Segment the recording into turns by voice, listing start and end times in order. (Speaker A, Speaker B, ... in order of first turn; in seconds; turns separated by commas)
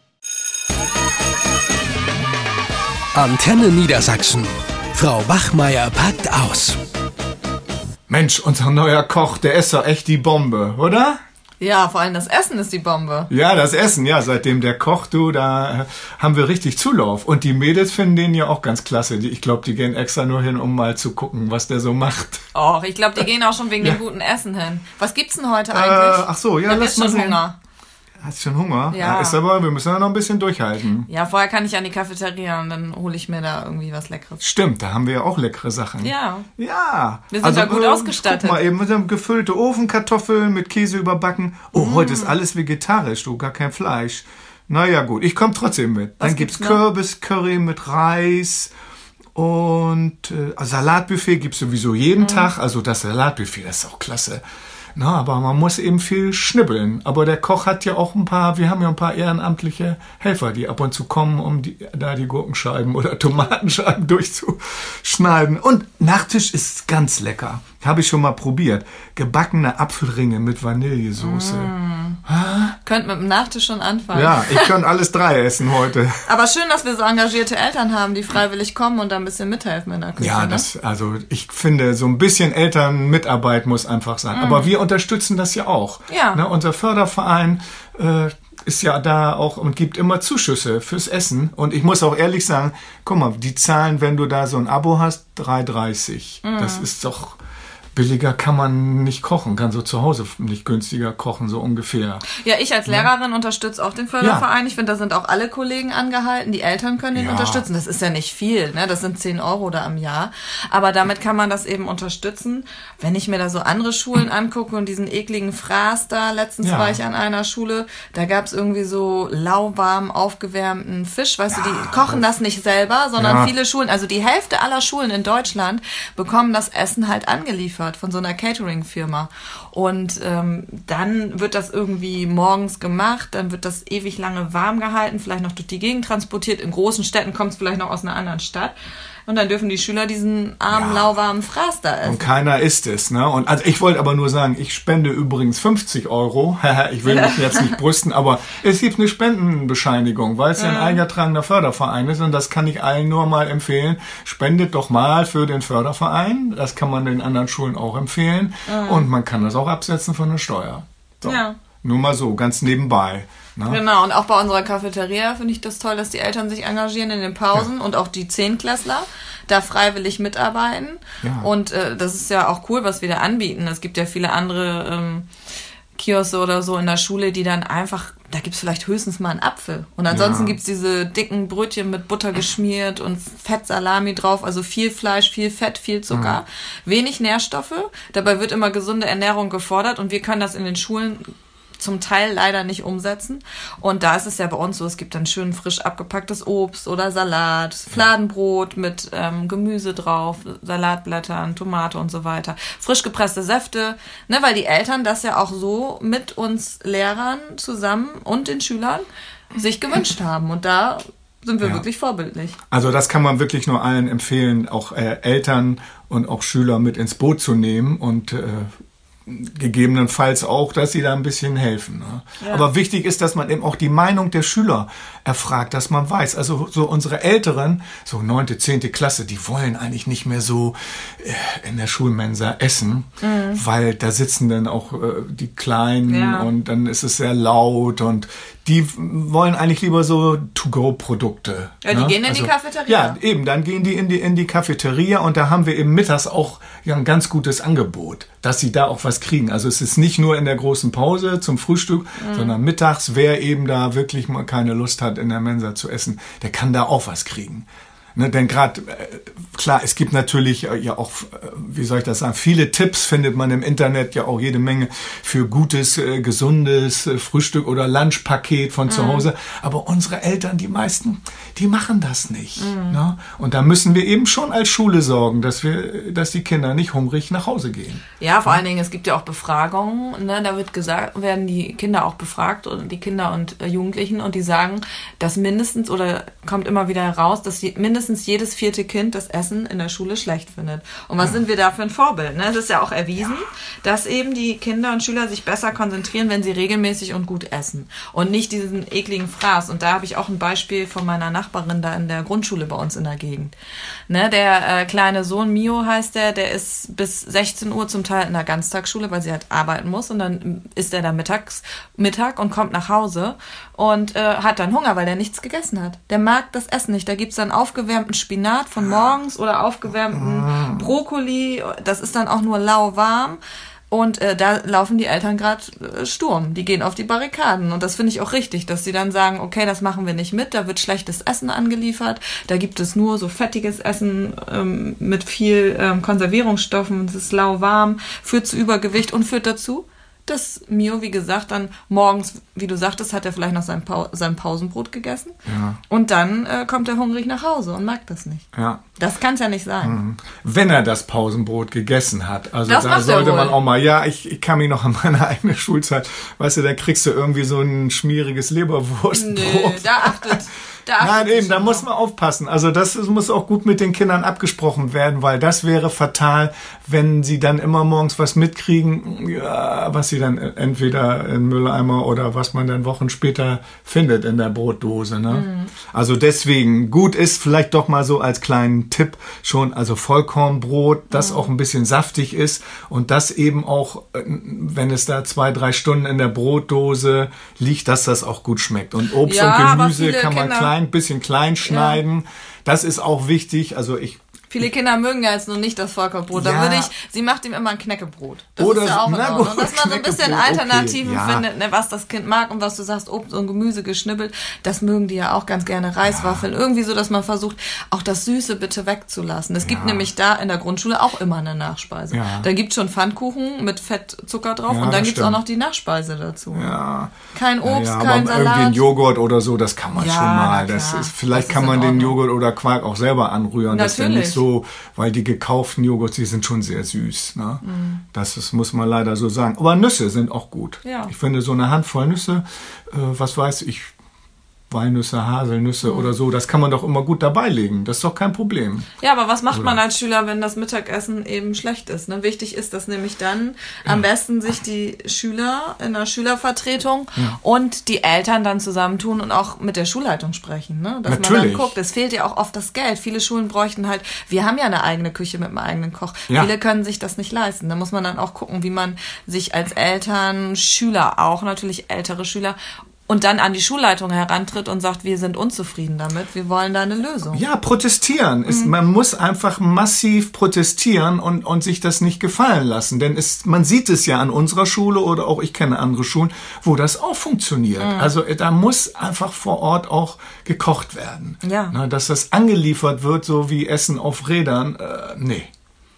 Speaker A: 3.1-6.8, Speaker B: 8.1-11.2, Speaker C: 11.6-13.3, Speaker B: 13.3-22.4, Speaker C: 22.5-27.6, Speaker B: 25.7-27.4, Speaker B: 28.2-31.1, Speaker C: 28.9-29.4, Speaker C: 31.1-34.4, Speaker B: 34.4-48.7, Speaker C: 36.0-36.5, Speaker C: 37.3-38.6, Speaker C: 41.7-42.4, Speaker C: 46.2-46.8, Speaker B: 49.3-54.4, Speaker C: 52.2-52.5, Speaker B: 54.9-71.7, Speaker C: 71.2-72.2, Speaker B: 72.2-72.8, Speaker C: 72.8-74.7, Speaker B: 74.1-76.2, Speaker C: 76.2-80.7, Speaker B: 80.2-97.4, Speaker C: 84.3-84.7, Speaker C: 86.1-86.4, Speaker C: 96.4-96.9, Speaker B: 97.9-102.2, Speaker C: 102.3-142.3, Speaker B: 104.2-104.5, Speaker B: 107.1-107.7, Speaker B: 116.6-117.0, Speaker B: 121.5-122.2, Speaker B: 123.2-123.5, Speaker B: 140.7-141.1, Speaker B: 142.0-163.8, Speaker C: 147.1-147.7, Speaker C: 150.6-151.0, Speaker C: 158.7-159.1, Speaker C: 161.2-161.6, Speaker C: 163.7-175.3, Speaker B: 171.2-171.5, Speaker C: 175.9-212.6, Speaker B: 180.1-180.6, Speaker B: 186.1-186.4, Speaker B: 212.7-218.7, Speaker B: 219.2-278.6, Speaker C: 222.4-222.7, Speaker C: 233.2-233.6, Speaker C: 236.1-236.5, Speaker C: 241.8-243.2, Speaker C: 252.2-252.5, Speaker C: 268.9-269.3, Speaker C: 272.6-273.0, Speaker C: 278.2-303.5, Speaker C: 304.1-323.4, Speaker B: 320.1-320.9, Speaker C: 323.9-345.3, Speaker B: 345.4-345.8, Speaker C: 345.9-348.4, Speaker B: 348.5-348.8, Speaker C: 348.9-350.0, Speaker B: 349.8-360.4, Speaker C: 352.6-353.6, Speaker C: 359.1-361.9, Speaker B: 361.0-394.6, Speaker C: 375.3-375.7, Speaker C: 381.1-381.5, Speaker C: 389.2-390.7, Speaker C: 391.6-392.0, Speaker C: 394.5-416.8, Speaker B: 396.3-396.9, Speaker B: 398.6-401.4, Speaker B: 406.0-406.4, Speaker B: 409.6-410.1, Speaker B: 412.1-412.5, Speaker B: 414.7-415.4, Speaker B: 416.5-433.9, Speaker C: 417.3-418.8, Speaker C: 419.9-422.2, Speaker C: 423.7-424.4, Speaker C: 427.6-428.0, Speaker C: 430.8-431.1, Speaker B: 434.7-438.9, Speaker C: 435.8-436.1, Speaker C: 439.0-467.4, Speaker B: 439.5-439.8, Speaker B: 451.1-451.7, Speaker B: 467.3-485.5, Speaker C: 468.4-468.7, Speaker C: 477.8-478.1, Speaker C: 481.4-481.7